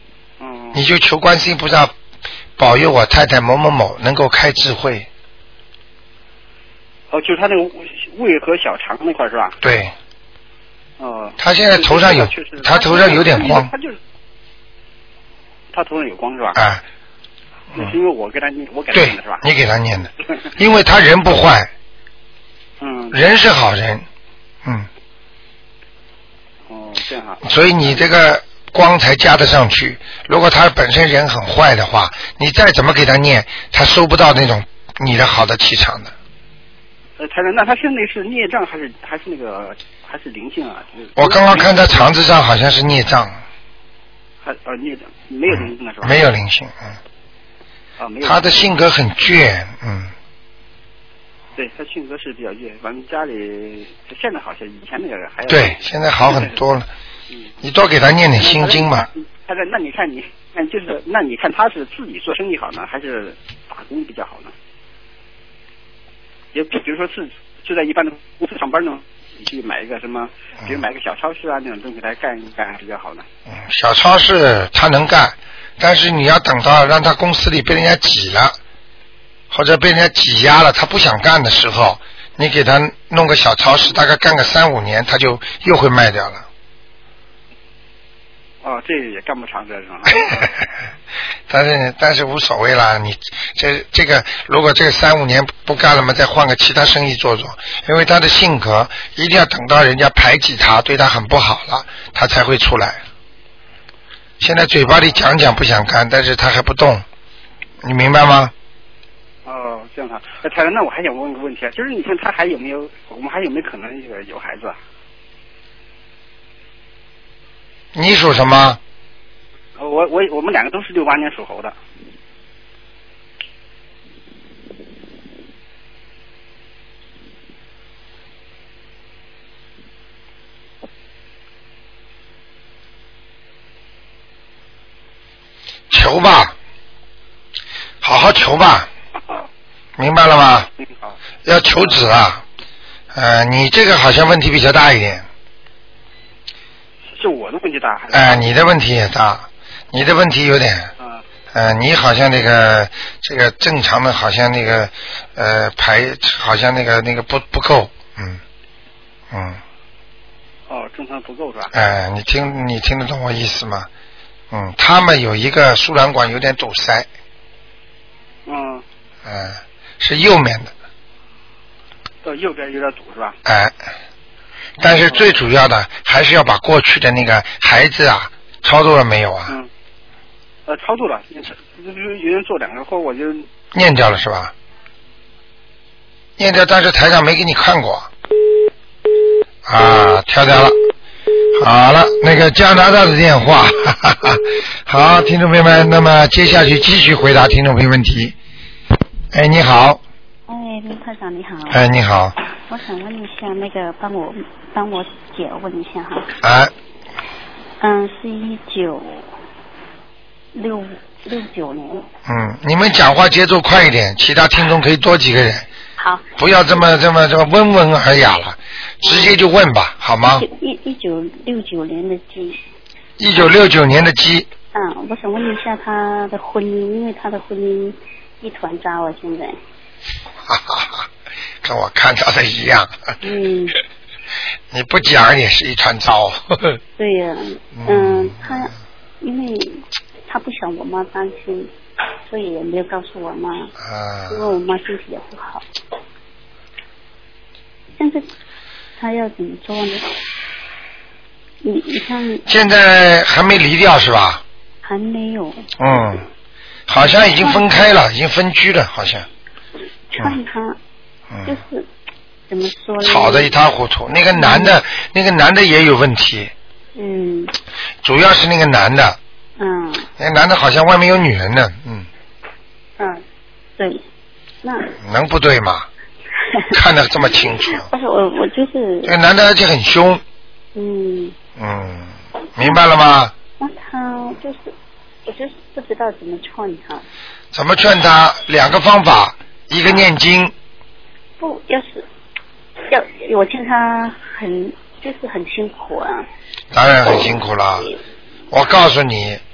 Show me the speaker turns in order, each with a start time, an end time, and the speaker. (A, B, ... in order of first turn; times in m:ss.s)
0:00.4-0:00.8 A
0:00.7-0:01.9 B
0:02.6-0:05.1 B
0:07.1-0:09.6 A
0:09.6-0:09.9 B
0:11.0-0:14.0 A
0:11.4-0:13.7 B
0:15.7-0:16.6 A
0:16.6-0:16.8 B
0:17.8-0:19.4 A
0:18.9-0:21.7 B
0:22.8-0:23.2 A
0:23.1-0:24.0 B
0:26.7-0:28.0 A
0:27.4-0:36.1 B
0:37.2-0:42.1 A
0:41.2-0:43.4 B
0:44.4-0:46.3 A
0:45.5-0:47.0 B
0:48.0-0:48.7 A
0:48.2-0:50.1 B
0:51.6-0:56.6 A
0:55.5-0:56.9 B
0:57.6-0:59.1 B
0:58.4-1:04.5 A
1:06.5-1:13.2 A
1:13.5-1:18.6 B
1:19.5-1:26.4 B
1:28.6-1:30.5 A
1:31.5-1:43.0 B
1:44.4-1:47.0 B
1:47.8-1:48.5 B
1:49.4-1:54.8 A
1:57.9-1:58.8 B
1:59.8-2:01.8 A
2:15.9-2:16.5 B
2:18.0-2:18.9 B
2:20.0-2:20.7 B
2:20.8-2:21.2 A
2:21.4-2:22.4 B
2:23.1-2:25.3 B
2:27.1-2:28.5 A
2:28.1-2:30.9 B
2:31.0-2:31.2 A
2:31.5-2:38.4 B
2:39.3-2:39.6 B
2:40.7-2:41.7 A
2:41.7-2:43.9 B
2:44.5-2:47.1 B
2:48.5-2:48.8 A
2:49.2-2:50.7 B
2:52.2-2:53.4 A
2:53.4-2:53.8 B
2:54.8-2:59.6 B
2:55.1-2:55.4 A
3:00.7-3:03.5 A
3:03.7-3:04.5 B
3:06.4-3:08.1 B
3:09.6-3:10.8 B
3:11.6-3:18.4 B
3:19.3-3:20.0 B
3:20.5-3:21.8 C
3:21.7-3:22.4 B
3:22.7-3:26.3 C
3:26.4-3:26.7 B
3:27.8-3:29.3 C
3:30.6-3:32.0 C
3:32.3-3:35.7 B
3:36.0-3:36.4 C
3:36.4-3:40.5 B
3:39.0-3:39.4 C
3:40.3-3:42.6 C
3:43.2-3:44.5 B
3:44.7-3:49.6 C
3:50.5-3:51.1 B
3:51.6-3:53.2 B
3:53.2-3:53.8 C
3:54.7-3:56.8 B
3:57.0-4:01.7 C
3:57.8-3:58.6 B
4:02.3-4:03.7 C
4:03.8-4:04.6 B
4:04.3-4:05.7 C
4:08.0-4:08.3 C
4:09.0-4:10.2 C
4:11.6-4:12.4 C
4:12.5-4:14.4 B
4:14.8-4:16.2 C
4:15.8-4:16.2 B
4:16.9-4:19.3 B
4:17.4-4:17.8 C
4:20.1-4:20.8 C
4:21.3-4:21.6 B
4:21.4-4:21.9 C
4:22.5-4:23.6 C
4:23.0-4:26.5 B
4:24.3-4:24.8 C
4:27.0-4:27.5 C
4:28.0-4:29.2 B
4:29.6-4:30.1 C
4:30.2-4:32.1 B
4:33.8-4:34.0 C
4:34.6-4:34.9 C
4:35.0-4:35.9 B
4:36.5-4:36.7 C
4:36.7-4:37.9 B
4:37.7-4:39.1 C
4:39.0-4:40.2 B
4:40.8-4:41.4 C
4:41.6-4:43.3 B
4:43.6-4:44.7 C
4:45.3-4:47.1 C
4:47.5-4:50.5 B
4:51.4-4:52.1 C
4:52.9-4:56.3 C
4:56.7-4:57.9 B
4:58.5-4:59.4 B